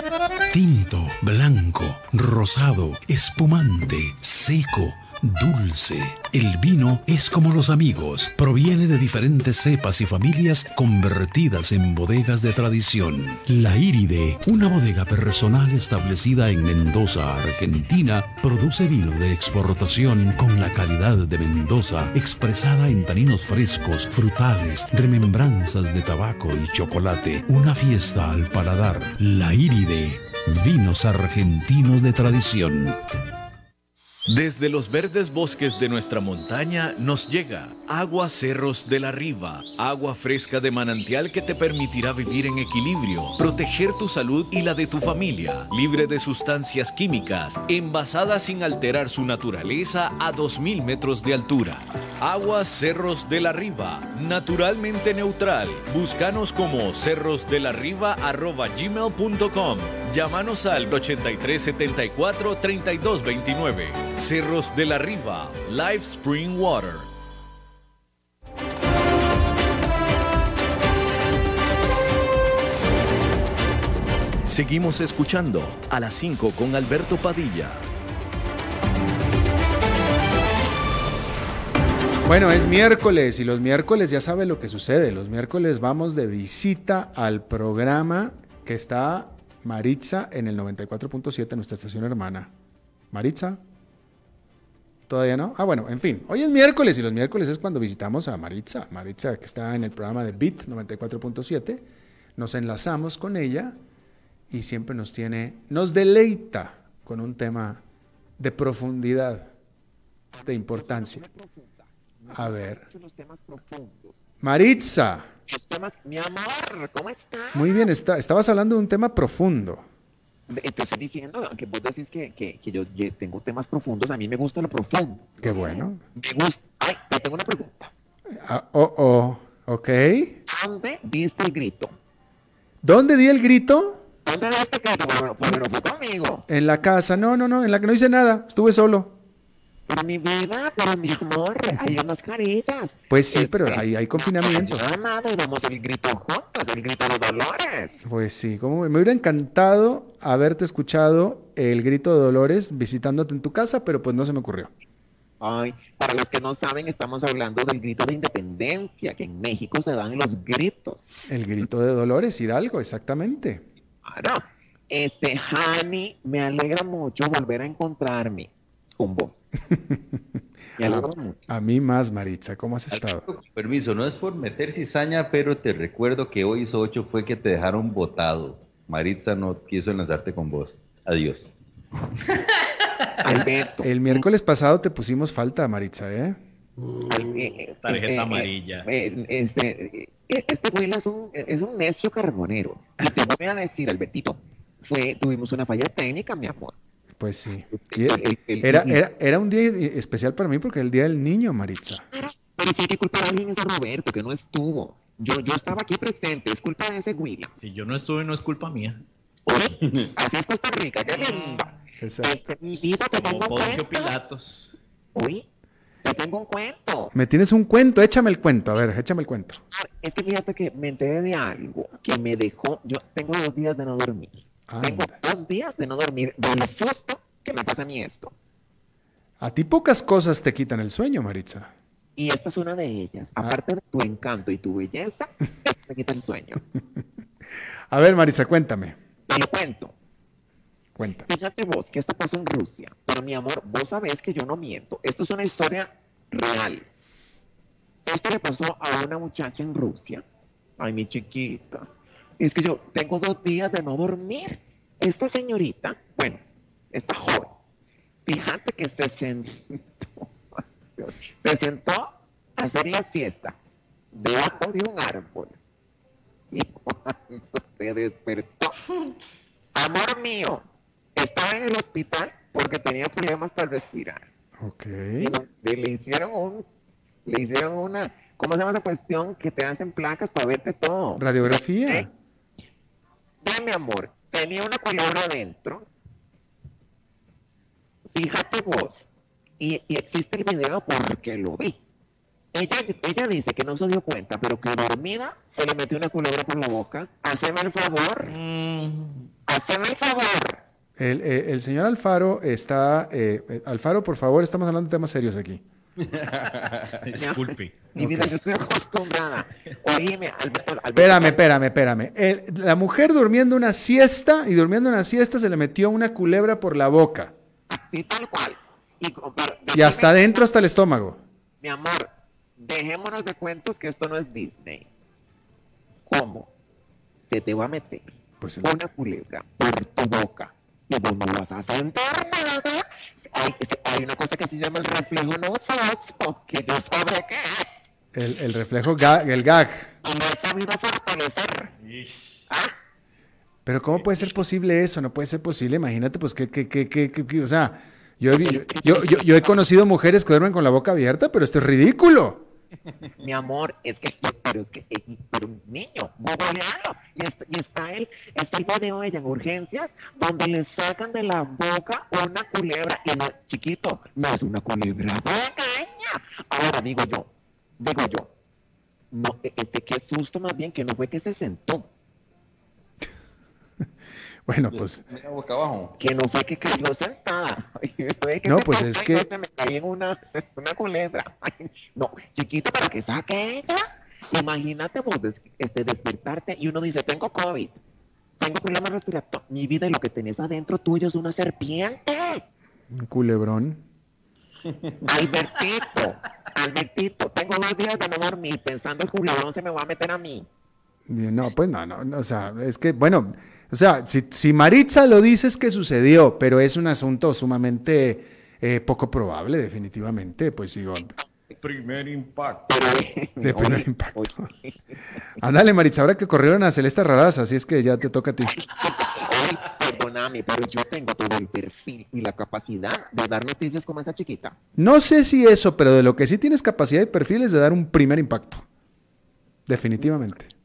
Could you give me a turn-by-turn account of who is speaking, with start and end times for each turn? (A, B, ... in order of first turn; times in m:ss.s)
0:00.5-0:33.0 A
0:34.3-1:07.1 B
1:14.4-1:17.8 B
1:22.2-1:32.5 C
1:33.1-1:33.6 C
1:35.1-1:41.8 C
1:42.4-1:43.8 C
1:44.5-1:47.8 C
1:48.4-1:49.5 C
1:50.3-1:54.2 D
1:50.4-1:51.2 C
1:52.3-1:52.8 C
1:54.4-1:55.3 C
1:55.5-1:57.9 D
1:57.5-1:59.8 C
2:00.5-2:07.9 D
2:05.4-2:06.0 C
2:08.4-2:10.4 C
2:10.5-2:11.9 D
2:12.8-2:14.0 C
2:14.2-2:16.4 D
2:16.5-2:19.1 C
2:19.9-2:28.0 D
2:23.1-2:24.8 C
2:28.0-2:34.7 C
2:35.4-2:41.3 D
2:41.3-2:43.6 C
2:44.0-2:49.5 D
2:49.7-2:50.2 C
2:50.8-2:51.4 D
2:50.8-2:53.2 C
2:53.0-3:01.5 E
3:03.2-3:03.9 D
3:03.3-3:06.4 C
3:07.1-3:16.7 D
3:07.8-3:08.9 F
3:17.2-3:22.0 C
3:17.7-3:19.0 D
3:22.1-3:27.5 D
3:27.6-3:29.0 F
3:29.5-3:31.7 D
3:31.1-3:31.6 F
3:32.0-3:32.4 C
3:32.2-3:34.1 D
3:33.1-3:34.7 F
3:35.1-3:35.4 D
3:36.0-3:37.1 D
3:37.1-3:39.6 C
3:39.7-3:48.3 D
3:44.7-3:45.1 C
3:49.4-3:51.7 C
3:52.2-3:56.6 D
3:57.9-3:59.0 C
3:59.3-3:59.9 D
4:01.0-4:01.2 C
4:01.2-4:06.8 D
4:08.0-4:10.2 D
4:10.8-4:11.9 D
4:12.4-4:17.5 D
4:18.2-4:20.3 D
4:21.0-4:23.6 D
4:24.1-4:25.6 D
4:26.5-4:28.7 D
4:29.7-4:30.6 D
4:31.2-4:34.3 D
4:34.6-4:35.4 C
4:35.2-4:36.6 D
4:37.2-4:42.1 D
4:41.2-4:42.1 C
4:43.4-4:45.9 D
4:48.1-4:49.1 D
4:49.6-4:51.8 D
4:52.5-4:58.4 D
4:58.3-4:59.2 F
4:59.5-5:00.6 D
5:01.0-5:05.6 C
5:06.1-5:08.3 F
5:07.2-5:11.4 D
5:10.9-5:17.3 C
5:17.7-5:20.5 D
5:19.7-5:21.2 C
5:21.6-5:24.9 D
5:26.0-5:26.5 D
5:27.2-5:37.7 D
5:28.4-5:28.8 C
5:38.1-5:39.9 C
5:40.0-5:41.7 D
5:41.8-5:42.1 E
5:42.5-5:42.7 D
5:43.6-5:52.4 C
5:48.3-5:49.8 D
5:53.2-6:08.3 D
6:09.1-6:11.9 D
6:14.4-6:15.0 C
6:14.7-6:16.0 E
6:16.0-6:27.8 D
6:18.4-6:19.3 C
6:28.4-6:32.4 D
6:32.9-6:33.8 C
6:35.0-6:40.5 D
6:41.1-6:51.1 C
6:51.6-6:52.6 E
6:52.7-6:55.0 D
6:53.4-6:54.5 C
6:55.4-6:58.5 C
6:58.5-7:04.6 D
7:04.8-7:08.6 C
7:09.7-7:10.5 C